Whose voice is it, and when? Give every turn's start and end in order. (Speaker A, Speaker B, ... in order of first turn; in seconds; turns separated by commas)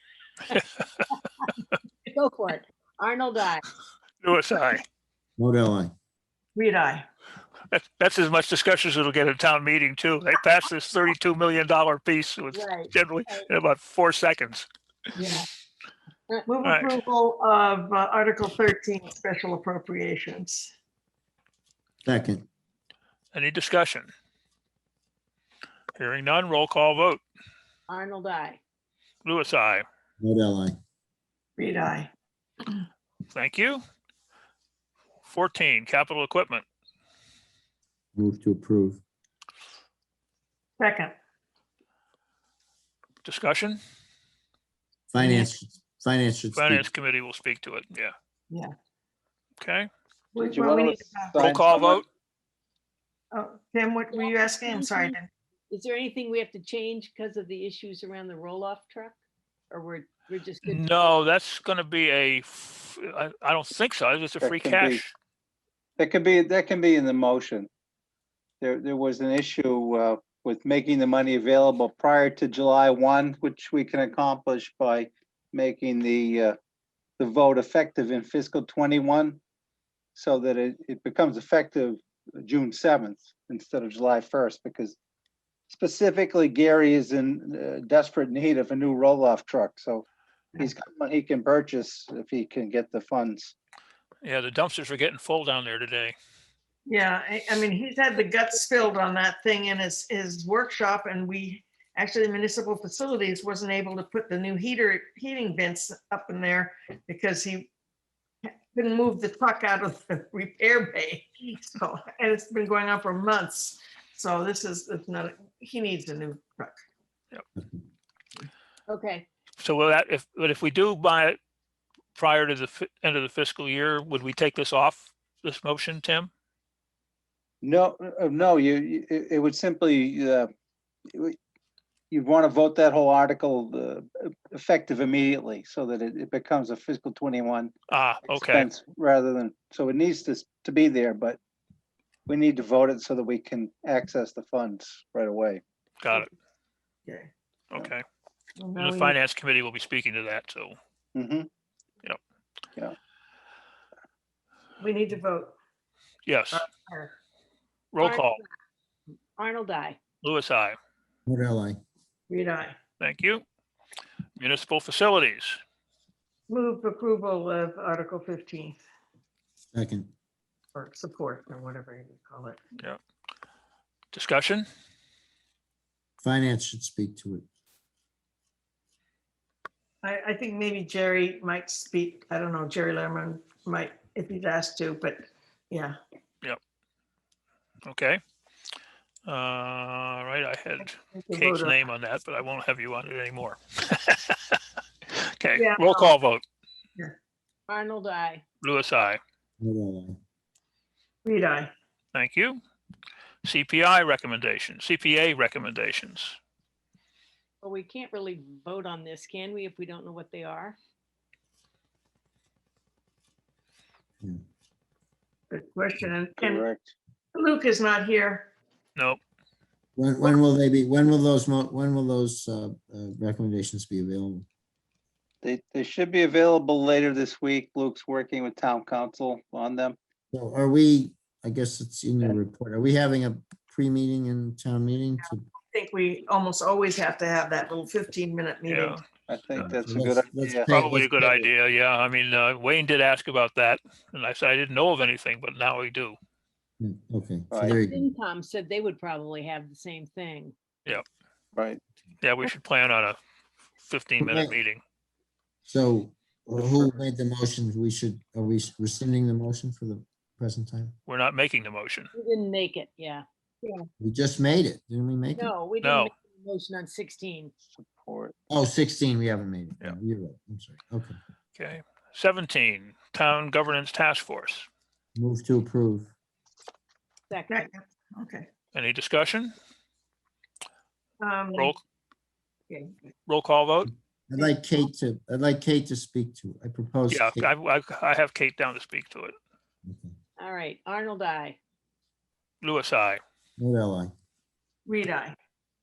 Speaker A: 2.1-3.6, Speaker B: 4.2-4.8, Speaker C: 5.4-5.9, Speaker D: 6.5-7.1, Speaker B: 7.7-14.7, Speaker A: 12.5-13.5, Speaker D: 15.2-15.5, Speaker D: 16.5-20.7, Speaker B: 16.6-16.9, Speaker C: 22.1-22.5, Speaker B: 23.3-24.1, Speaker B: 26.0-27.2, Speaker A: 27.9-28.6, Speaker B: 29.2-29.9, Speaker C: 30.2-30.8, Speaker D: 31.6-32.1, Speaker B: 33.3-33.8, Speaker B: 35.2-36.6, Speaker C: 38.1-39.0, Speaker D: 40.8-41.1, Speaker B: 43.2-43.8, Speaker C: 45.1-46.9, Speaker D: 45.2-45.5, Speaker B: 46.5-48.1, Speaker D: 48.5-48.8, Speaker B: 49.6-49.9, Speaker D: 50.3-51.3, Speaker E: 50.4-52.0, Speaker B: 51.4-52.0, Speaker D: 53.3-55.3, Speaker A: 54.1-55.1, Speaker A: 55.7-59.2, Speaker A: 59.7-60.9, Speaker B: 60.6-65.1, Speaker E: 64.4-65.0, Speaker E: 66.0-67.7, Speaker E: 68.6-76.6, Speaker E: 77.2-79.4, Speaker E: 80.2-85.0, Speaker E: 85.7-90.1, Speaker E: 90.6-93.5, Speaker B: 94.2-96.2, Speaker D: 96.9-107.7, Speaker D: 108.4-116.8, Speaker C: 117.6-117.8, Speaker A: 118.9-119.3, Speaker B: 119.6-121.4, Speaker B: 122.2-126.3, Speaker E: 127.6-130.5, Speaker E: 132.1-137.7, Speaker B: 137.9-138.7, Speaker E: 138.3-141.4, Speaker E: 142.3-145.6, Speaker B: 146.0-146.3, Speaker D: 147.1-147.3, Speaker B: 147.7-148.0, Speaker D: 148.6-149.2, Speaker B: 148.8-150.8, Speaker E: 151.2-151.5, Speaker D: 154.8-155.6, Speaker B: 156.3-156.7, Speaker D: 156.5-157.2, Speaker B: 157.9-158.4, Speaker A: 158.0-158.4, Speaker A: 159.4-160.0, Speaker B: 160.2-160.8, Speaker C: 161.3-161.8, Speaker D: 162.3-162.8, Speaker B: 163.0-163.4, Speaker B: 164.4-165.6, Speaker D: 166.5-168.8, Speaker C: 169.7-170.1, Speaker D: 170.8-172.6, Speaker B: 174.1-174.7, Speaker C: 176.2-177.5, Speaker D: 180.0-186.0, Speaker B: 187.8-188.2, Speaker B: 189.3-196.4, Speaker D: 190.8-191.8, Speaker D: 195.6-196.1, Speaker A: 197.7-198.4, Speaker B: 198.6-199.2, Speaker C: 199.6-200.2, Speaker D: 201.2-201.7, Speaker B: 202.1-202.6, Speaker B: 203.4-206.4, Speaker A: 207.6-210.8, Speaker D: 215.5-216.7, Speaker E: 216.4-216.9, Speaker D: 217.3-218.5, Speaker C: 220.0-224.5, Speaker E: 225.4-230.0, Speaker C: 230.3-235.4, Speaker D: 235.7-239.0, Speaker B: 238.7-239.0, Speaker E: 239.3-240.7, Speaker C: 239.6-241.5, Speaker B: 240.7-246.2, Speaker C: 246.8-248.1, Speaker E: 247.5-247.8, Speaker A: 247.9-250.5, Speaker E: 251.6-251.8, Speaker B: 252.2-253.2, Speaker B: 253.8-254.8, Speaker C: 254.2-254.6, Speaker C: 255.7-261.0, Speaker B: 261.1-262.1, Speaker A: 262.1-263.2, Speaker C: 264.0-265.6, Speaker A: 265.4-267.5, Speaker B: 265.8-266.1, Speaker E: 267.8-268.4, Speaker C: 268.5-271.2, Speaker B: 271.6-274.7, Speaker C: 275.1-276.1, Speaker A: 277.3-277.7, Speaker D: 277.5-278.5, Speaker B: 278.7-279.5, Speaker D: 281.2-281.7, Speaker D: 282.7-282.9, Speaker B: 283.3-283.9, Speaker C: 284.3-287.5, Speaker B: 287.1-289.3, Speaker C: 289.9-290.1, Speaker A: 290.4-291.6, Speaker B: 292.6-293.2, Speaker C: 293.6-294.1, Speaker D: 294.9-295.4